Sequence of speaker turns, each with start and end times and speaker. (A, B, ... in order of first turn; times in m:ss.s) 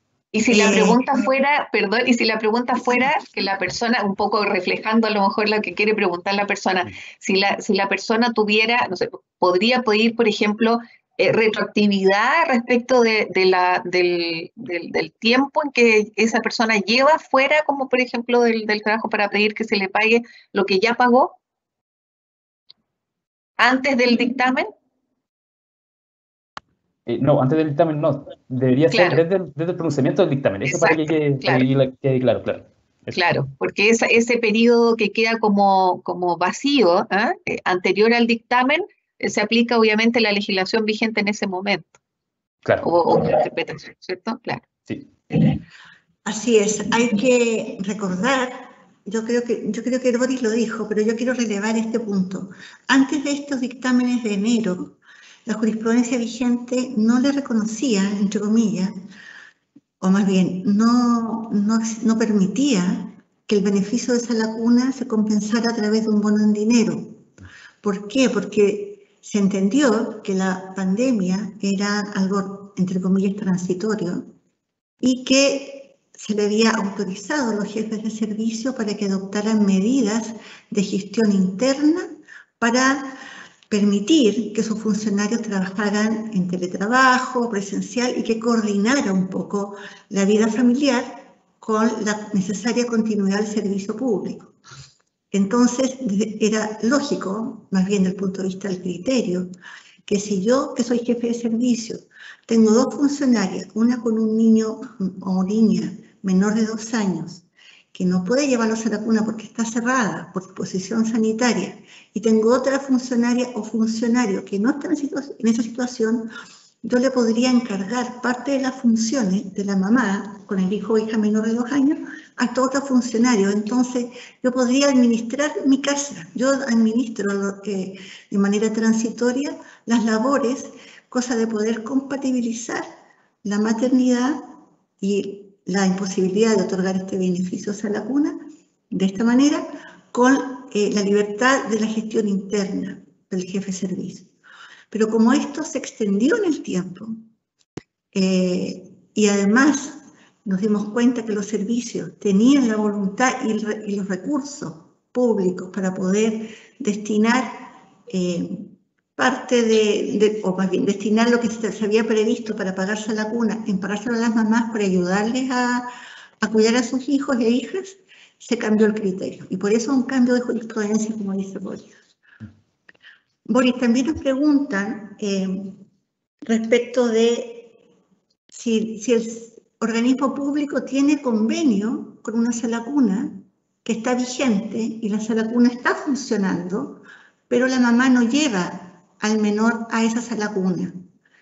0:00.3-0:21.4 A
0:00.5-0:01.0 B
0:23.6-0:24.7 A
0:27.1-0:33.2 C
0:28.9-0:29.2 A
0:30.7-0:31.7 A
0:33.1-0:42.0 A
0:42.6-0:42.9 C
0:42.8-0:44.7 A
0:46.2-0:58.9 B
1:00.0-1:07.2 B
1:07.8-1:14.3 B
1:15.0-1:22.1 B
1:22.6-1:23.2 B
1:23.7-1:34.5 B
1:35.3-1:39.5 B
1:40.1-1:56.3 B
1:56.8-2:12.9 B
2:13.4-2:18.4 B
2:18.9-2:24.3 B
2:24.9-2:27.2 B
2:28.1-2:45.9 B
2:46.4-2:51.9 B
2:53.5-2:55.8 B
2:56.4-2:57.8 B
2:58.5-3:11.0 B